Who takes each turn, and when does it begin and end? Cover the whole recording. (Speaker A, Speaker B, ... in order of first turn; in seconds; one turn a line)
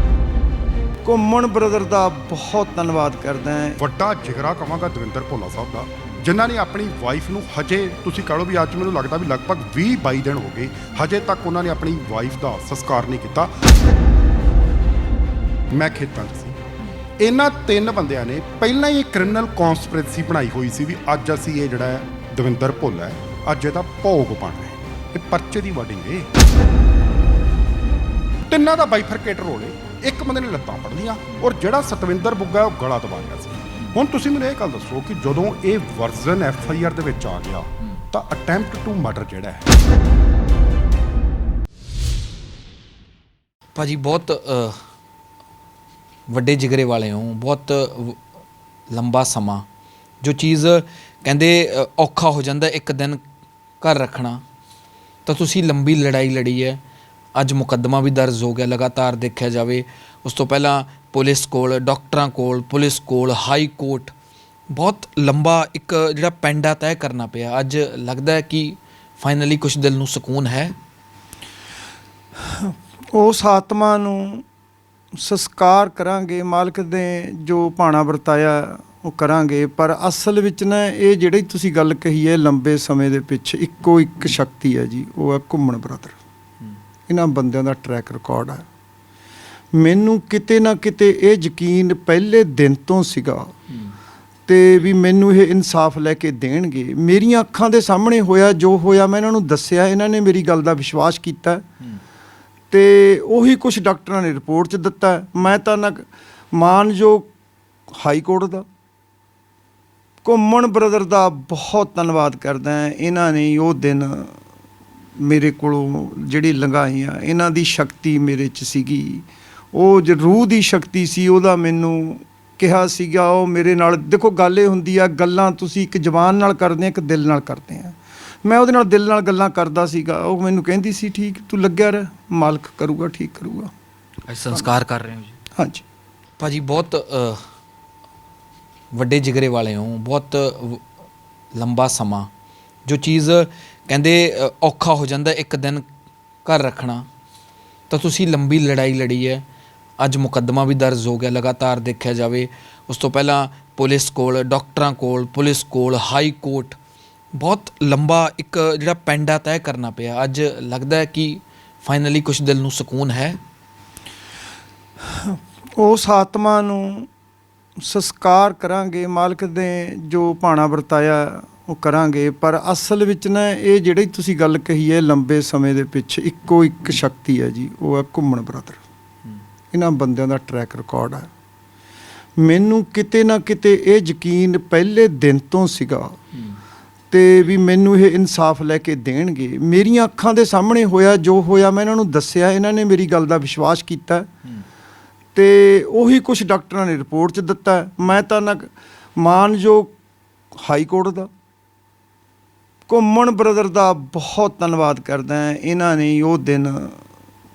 Speaker A: 1.0-3.8
Speaker B: 3.8-13.5
Speaker B: 15.7-16.6
Speaker B: 17.2-26.3
Speaker B: 28.5-39.6
Speaker C: 43.7-44.8
Speaker C: 46.3-48.2
Speaker C: 48.9-49.6
Speaker C: 50.2-53.2
Speaker C: 53.8-54.4
Speaker C: 55.2-56.8
Speaker C: 57.4-64.1
Speaker C: 64.7-70.7
Speaker A: 72.5-74.4
Speaker A: 75.1-86.2
Speaker A: 87.1-88.7
Speaker A: 89.7-93.5
Speaker A: 94.5-101.7
Speaker A: 102.7-107.3
Speaker A: 107.9-108.7
Speaker A: 110.2-114.3
Speaker A: 115.2-133.7
Speaker C: 134.3-135.4
Speaker A: 135.6-135.8
Speaker C: 136.4-137.4
Speaker C: 138.9-140.8
Speaker C: 141.5-142.3
Speaker C: 142.8-145.8
Speaker C: 146.4-147.0
Speaker C: 147.9-149.4
Speaker C: 150.0-156.8
Speaker C: 157.3-163.4
Speaker A: 165.1-167.1
Speaker A: 167.8-178.8
Speaker A: 179.7-181.3
Speaker A: 182.4-186.2
Speaker A: 187.1-194.3
Speaker A: 195.3-199.9
Speaker A: 200.6-201.3
Speaker A: 202.9-207.0